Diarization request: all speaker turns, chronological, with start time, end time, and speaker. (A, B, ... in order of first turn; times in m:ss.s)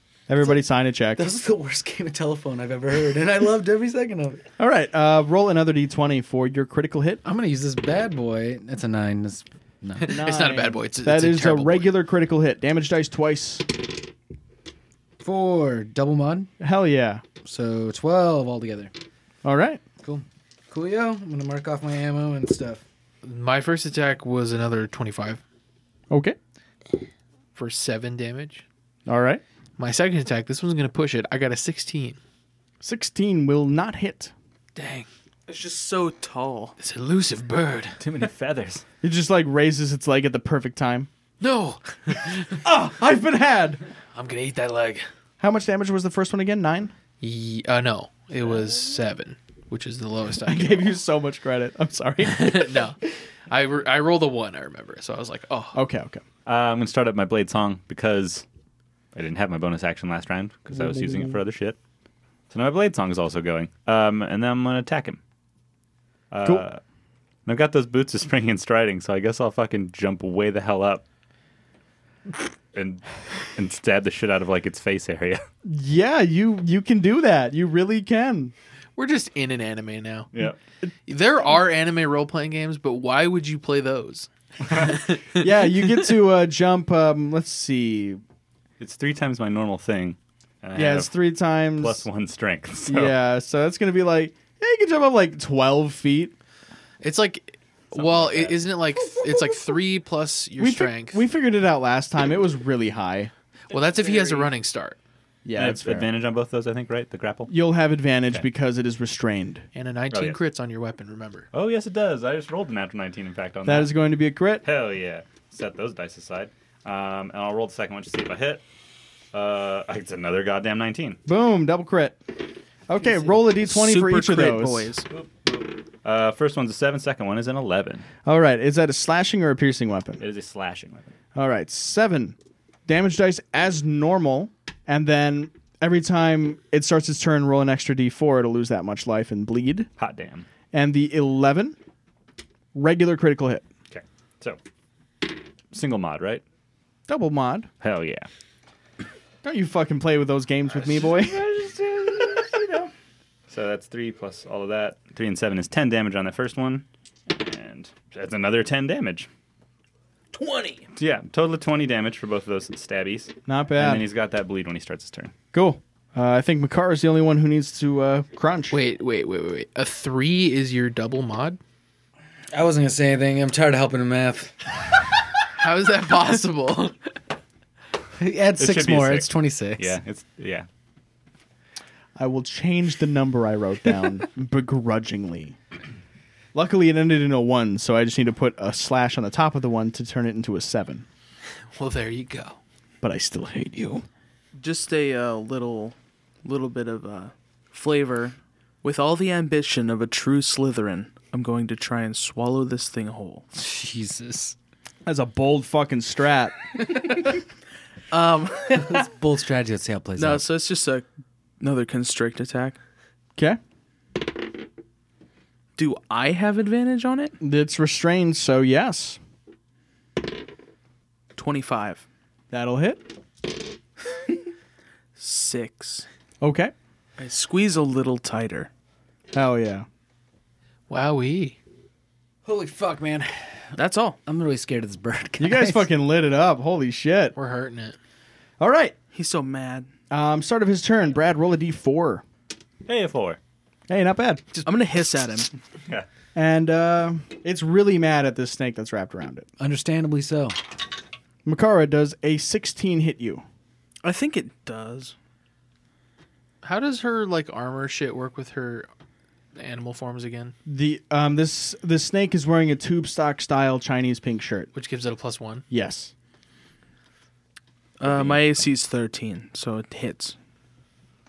0:00.3-0:01.3 A
0:01.2-0:04.4 B
0:04.6-0:07.2 A
0:07.2-0:10.2 B
0:10.0-0:11.9 C
0:10.1-0:13.7 A
0:15.2-0:16.5 B
0:16.6-0:17.2 A
0:17.4-0:18.9 B
0:19.4-0:19.8 A
0:20.0-0:22.8 B
0:23.2-0:25.4 C
0:26.1-0:26.4 A
0:27.5-0:28.6 C
0:29.1-0:29.4 A
0:29.8-0:32.2 C
0:32.8-0:34.3 A
0:34.8-0:35.1 C
0:35.5-0:36.7 D
0:36.8-0:38.0 C
0:38.0-0:38.8 E
0:39.0-0:41.1 A
0:41.4-0:42.6 C
0:42.6-0:43.8 A
0:44.1-0:45.0 C
0:45.4-0:46.9 A
0:47.2-0:50.9 C
0:50.4-0:52.8 A
0:52.2-0:55.8 C
0:55.7-0:56.2 A
0:56.4-0:58.4 E
0:59.1-1:01.8 E
1:00.7-1:01.3 A
1:02.5-1:05.2 E
1:06.3-1:06.8 E
1:07.4-1:11.0 E
1:12.7-1:15.4 E
1:15.6-1:18.5 A
1:19.0-1:20.3 C
1:20.3-1:20.6 E
1:21.0-1:25.5 C
1:24.7-1:25.0 E
1:25.4-1:28.2 A
1:28.8-1:31.1 E
1:30.7-1:32.0 A
1:31.8-1:33.1 E
1:32.9-1:36.3 A
1:37.0-1:41.2 C
1:37.9-1:38.7 E
1:40.6-1:43.3 A
1:43.7-1:45.0 C
1:45.4-1:46.1 A
1:45.6-1:47.5 E
1:47.5-1:49.7 A
1:49.7-1:51.5 C
1:50.1-1:50.4 E
1:51.5-1:54.0 E
1:53.6-1:54.6 A
1:54.6-1:58.6 E
1:59.3-2:01.2 E
2:01.2-2:02.2 A
2:02.9-2:04.9 A
2:03.4-2:05.1 D
2:05.1-2:08.0 E
2:08.2-2:10.2 A
2:10.2-2:11.1 E
2:11.3-2:12.4 A
2:12.9-2:19.9 A
2:20.0-2:20.5 E
2:20.7-2:21.8 A
2:22.7-2:23.6 A
2:23.9-2:24.6 E
2:25.7-2:26.4 E
2:27.1-2:27.7 A
2:27.8-2:28.3 E
2:29.4-2:31.4 A
2:30.7-2:32.9 E
2:33.5-2:39.3 E
2:40.3-2:40.8 D
2:41.0-2:45.3 E
2:43.5-2:44.1 A
2:45.5-2:48.8 A
2:48.7-2:51.6 C
2:52.5-2:54.6 B
2:55.6-2:56.9 C
2:58.2-3:00.0 B
2:58.6-3:00.6 E
3:02.2-3:05.6 A
3:06.5-3:11.0 A
3:11.7-3:12.6 C
3:13.0-3:14.0 A
3:14.6-3:23.4 D
3:23.5-3:24.5 B
3:25.0-3:26.6 A
3:28.1-3:29.0 D
3:28.7-3:30.5 B
3:30.2-3:31.0 D
3:31.6-3:32.8 D
3:35.8-3:37.4 D
3:37.4-3:39.2 A
3:41.3-3:42.0 D
3:42.5-3:43.0 A
3:45.2-3:46.1 D
3:46.4-3:46.7 A
3:47.2-3:48.7 D
3:49.3-3:49.9 A
3:50.9-3:51.6 C
3:52.4-3:55.9 B
3:53.8-3:54.2 D
3:55.4-3:57.4 A
3:57.3-3:58.0 C
3:58.6-3:58.9 A
3:59.1-3:59.9 D
4:00.1-4:02.2 A
4:02.9-4:03.4 E
4:03.9-4:04.6 A
4:04.6-4:05.5 D
4:06.3-4:09.5 A
4:09.6-4:10.6 B
4:11.4-4:13.4 A
4:14.0-4:15.1 D
4:16.6-4:18.9 C
4:19.5-4:20.5 C
4:20.6-4:24.7 A
4:24.7-4:25.6 C
4:25.7-4:26.1 A
4:28.0-4:30.4 D
4:28.0-4:28.6 E